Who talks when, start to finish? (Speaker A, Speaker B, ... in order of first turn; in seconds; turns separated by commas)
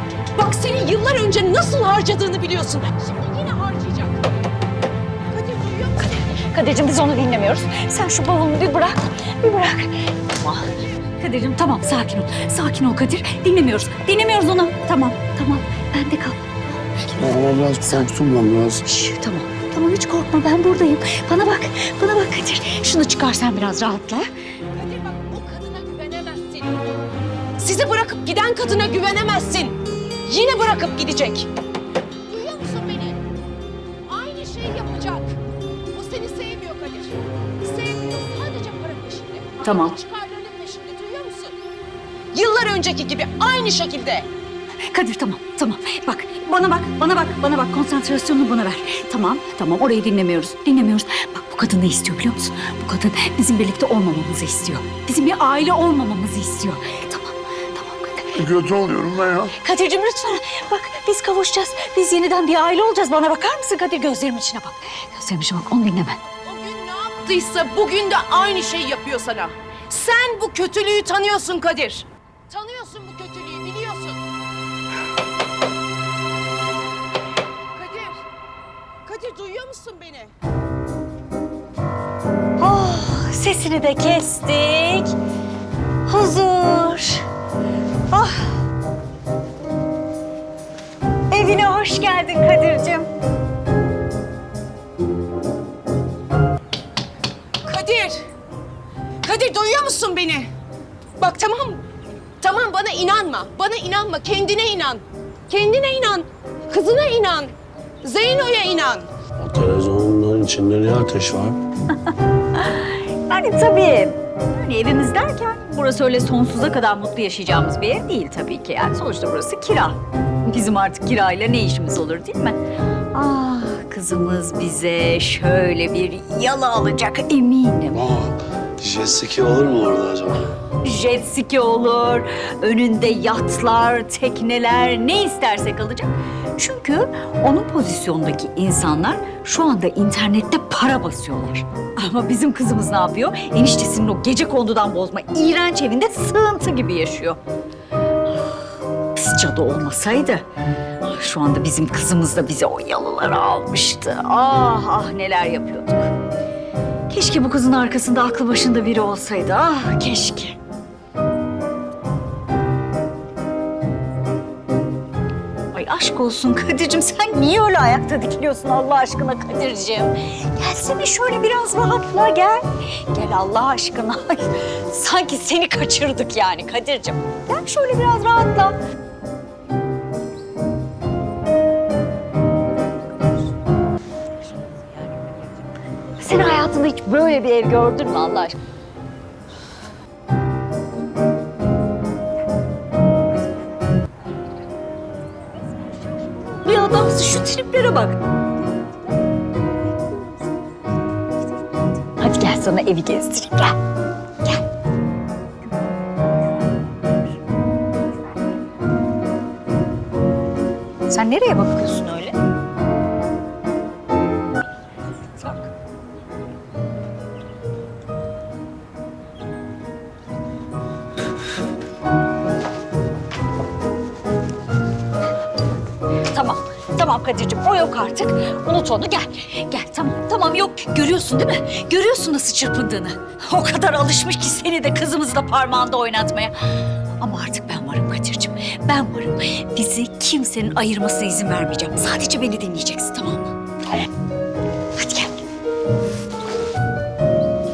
Speaker A: 0.3-4.2, Speaker A: 5.3-6.2, Speaker B: 6.0-17.2, Speaker C: 17.1-18.8, Speaker B: 18.9-24.2, Speaker A: 24.7-26.7, Speaker A: 27.6-31.5, Speaker A: 32.3-33.2, Speaker A: 34.0-35.4, Speaker A: 35.9-41.5, Speaker B: 39.6-39.9, Speaker A: 42.3-44.3, Speaker B: 44.9-58.4, Speaker C: 58.3-59.5, Speaker B: 59.6-66.2, Speaker A: 66.3-74.2, Speaker A: 77.7-78.2, Speaker A: 79.0-80.3, Speaker B: 82.6-85.2, Speaker B: 86.1-87.2, Speaker B: 88.1-88.6, Speaker B: 91.3-93.1, Speaker A: 97.6-98.2, Speaker A: 99.2-100.5, Speaker A: 101.2-101.8, Speaker A: 102.4-109.1, Speaker C: 109.4-111.6, Speaker B: 112.5-122.6, Speaker B: 123.1-128.1, Speaker C: 127.9-130.6, Speaker B: 130.8-147.4, Speaker B: 149.1-150.4, Speaker B: 151.0-156.1, Speaker B: 157.1-160.6, Speaker B: 165.7-178.8, Speaker B: 186.2-188.6, Speaker B: 196.6-198.2, Speaker B: 202.2-203.8, Speaker B: 211.1-212.3, Speaker B: 215.4-215.6, Speaker B: 226.3-236.6, Speaker B: 237.2-243.5, Speaker B: 244.9-245.4